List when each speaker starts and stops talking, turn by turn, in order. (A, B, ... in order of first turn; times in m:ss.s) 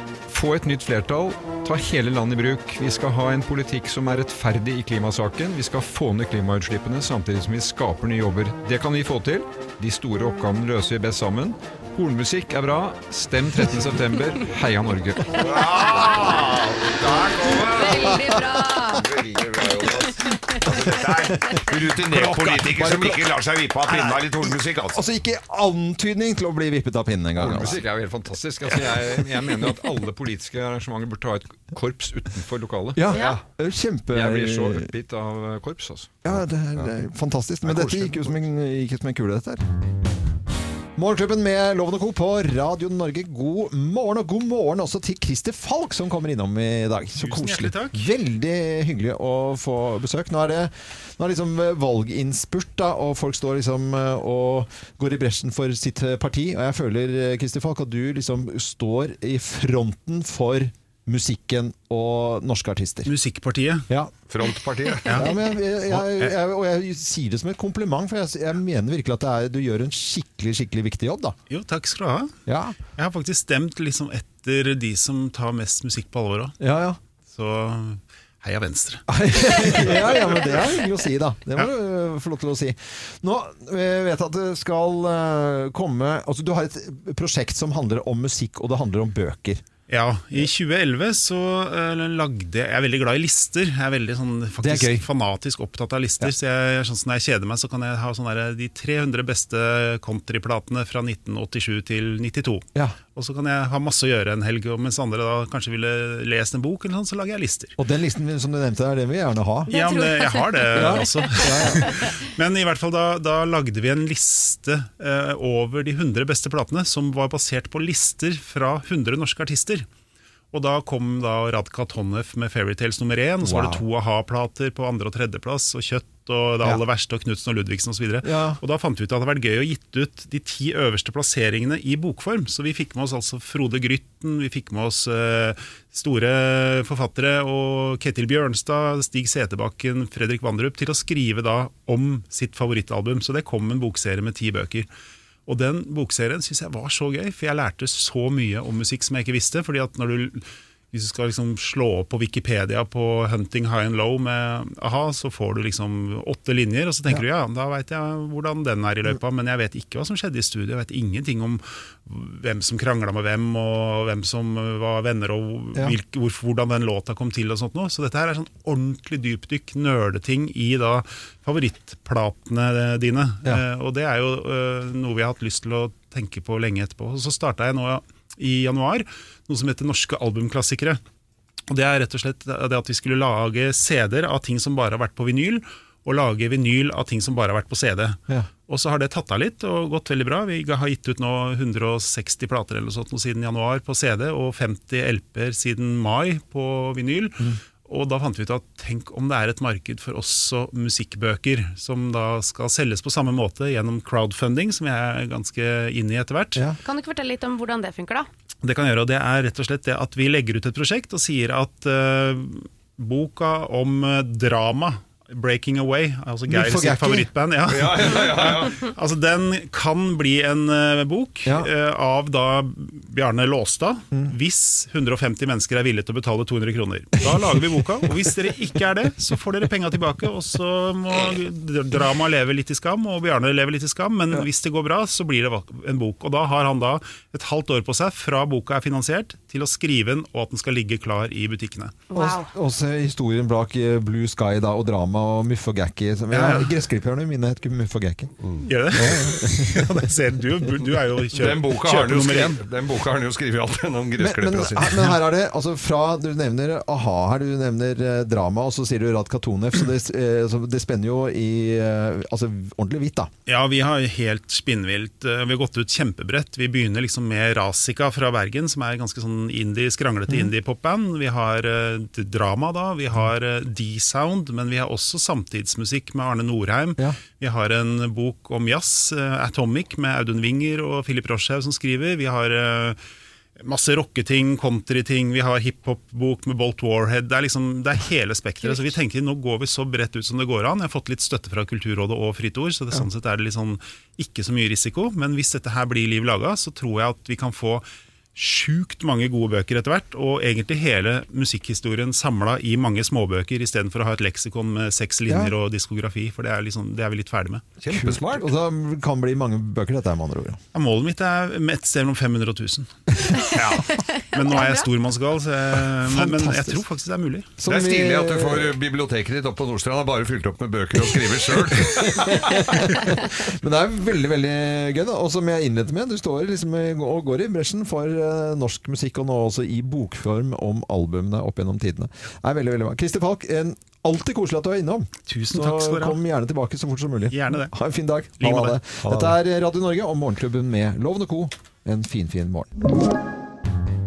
0:00.3-0:15.4 A
0:15.4-0:25.0 B
0:15.6-0:16.4 C
0:17.5-0:19.1 C
0:20.9-0:23.3 D
0:23.9-0:27.8 D
0:27.4-0:33.2 A
0:27.4-0:27.8 B
0:33.0-0:34.9 D
0:33.1-0:33.4 C
0:34.1-0:36.4 A
0:36.2-0:39.6 D
0:37.6-0:38.4 B
0:41.0-1:03.1 D
0:47.2-0:48.0 E
1:03.1-1:03.9 E
1:04.3-1:05.2 B
1:05.1-1:05.3 E
1:05.1-1:11.4 D
1:05.9-1:06.4 B
1:11.5-1:12.4 E
1:12.5-1:12.8 D
1:13.0-1:16.6 E
1:16.6-1:17.0 D
1:17.2-1:20.7 E
1:19.1-1:29.6 D
1:29.9-1:47.7 E
1:34.6-1:35.0 D
1:47.8-1:49.7 D
1:49.7-1:51.1 C
1:49.7-1:59.9 E
1:50.7-1:51.8 D
1:51.9-1:52.2 C
2:00.5-2:24.9 E
2:03.4-2:03.8 D
2:08.2-2:08.6 D
2:25.5-3:01.0 E
3:01.7-3:26.7 E
3:26.8-3:28.3 C
3:28.6-4:02.0 E
3:36.5-3:37.3 D
3:37.7-3:38.8 B
4:02.1-4:02.5 C
4:02.1-4:08.3 D
4:06.3-4:06.7 E
4:08.7-4:12.6 E
4:09.0-4:09.8 D
4:11.3-4:15.1 B
4:14.2-4:23.3 D
4:23.5-4:43.0 E
4:30.3-4:30.5 D
4:43.6-5:07.7 E
4:48.6-4:48.9 C
5:05.3-5:05.5 D
5:07.8-5:08.5 B
5:07.9-5:10.6 D
5:10.7-5:13.2 E
5:13.5-5:13.9 B
5:14.1-5:14.9 C
5:14.3-5:17.5 E
5:16.0-5:16.8 D
5:17.6-5:18.7 D
5:17.7-5:23.1 B
5:22.0-5:42.7 D
5:35.3-5:36.2 E
5:37.3-5:37.7 E
5:38.4-5:38.8 E
5:39.0-5:39.4 B